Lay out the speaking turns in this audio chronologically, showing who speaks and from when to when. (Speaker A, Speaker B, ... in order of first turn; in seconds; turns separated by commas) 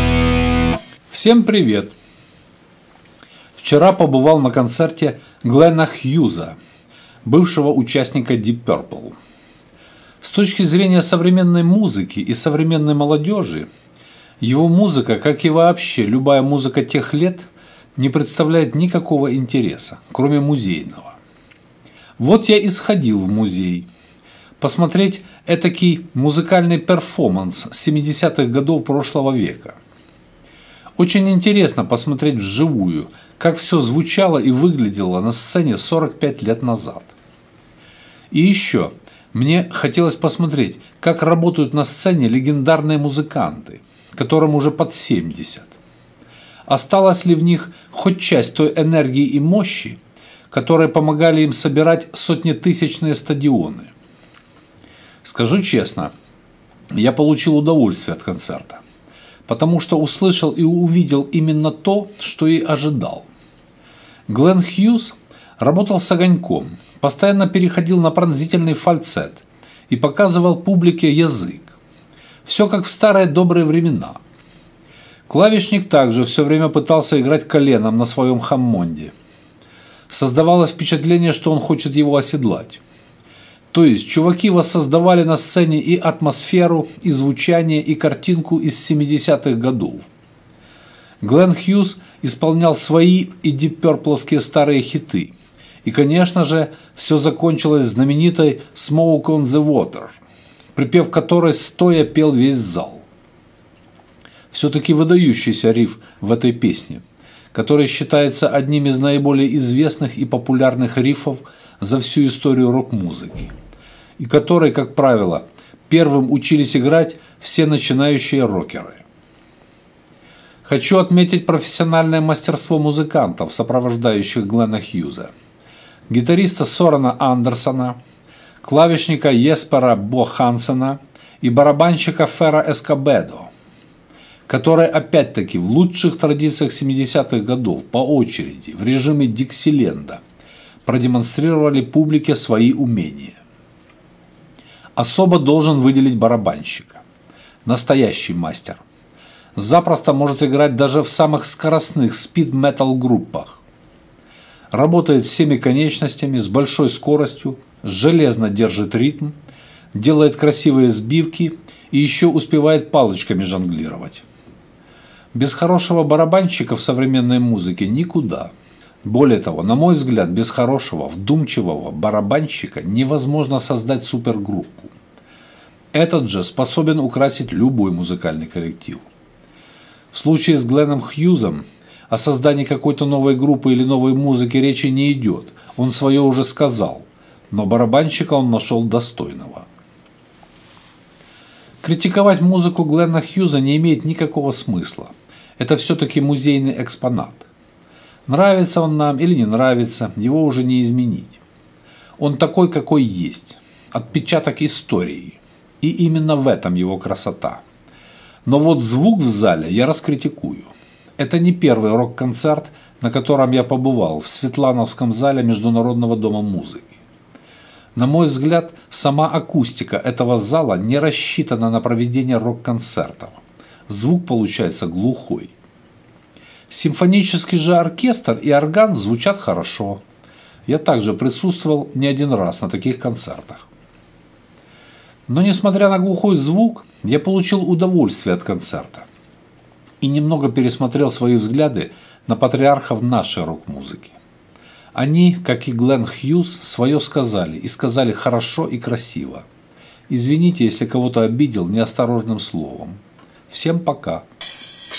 Speaker A: 1.1-1.9, Speaker A: 3.6-6.5, Speaker A: 7.2-9.2, Speaker A: 10.2-13.7, Speaker A: 14.4-21.2, Speaker A: 22.2-23.9, Speaker A: 24.6-29.8, Speaker A: 31.0-37.1, Speaker A: 38.3-45.7, Speaker A: 46.7-50.0, Speaker A: 50.5-53.9, Speaker A: 55.2-56.1, Speaker A: 56.9-58.8, Speaker A: 59.5-63.3, Speaker A: 64.3-71.8, Speaker A: 72.4-74.2, Speaker A: 75.3-79.1, Speaker A: 80.1-82.8, Speaker A: 83.7-90.0, Speaker A: 91.2-100.1, Speaker A: 100.7-103.0, Speaker A: 104.5-113.5, Speaker A: 114.2-119.0, Speaker A: 120.6-125.3, Speaker A: 126.1-128.0, Speaker A: 128.6-133.5, Speaker A: 134.5-140.2, Speaker A: 140.8-143.4, Speaker A: 144.9-147.0, Speaker A: 147.7-148.8, Speaker A: 149.5-153.6, Speaker A: 154.7-159.3, Speaker A: 159.9-164.2, Speaker A: 165.3-168.5, Speaker A: 169.0-174.9, Speaker A: 175.9-179.0, Speaker A: 180.1-189.7, Speaker A: 191.8-197.5, Speaker A: 198.3-201.4, Speaker A: 202.2-207.6, Speaker A: 208.4-216.9, Speaker A: 217.9-225.5, Speaker A: 226.7-230.0, Speaker A: 230.7-233.6, Speaker A: 235.3-239.1, Speaker A: 240.0-244.1, Speaker A: 244.9-249.4, Speaker A: 250.1-253.0, Speaker A: 253.5-254.2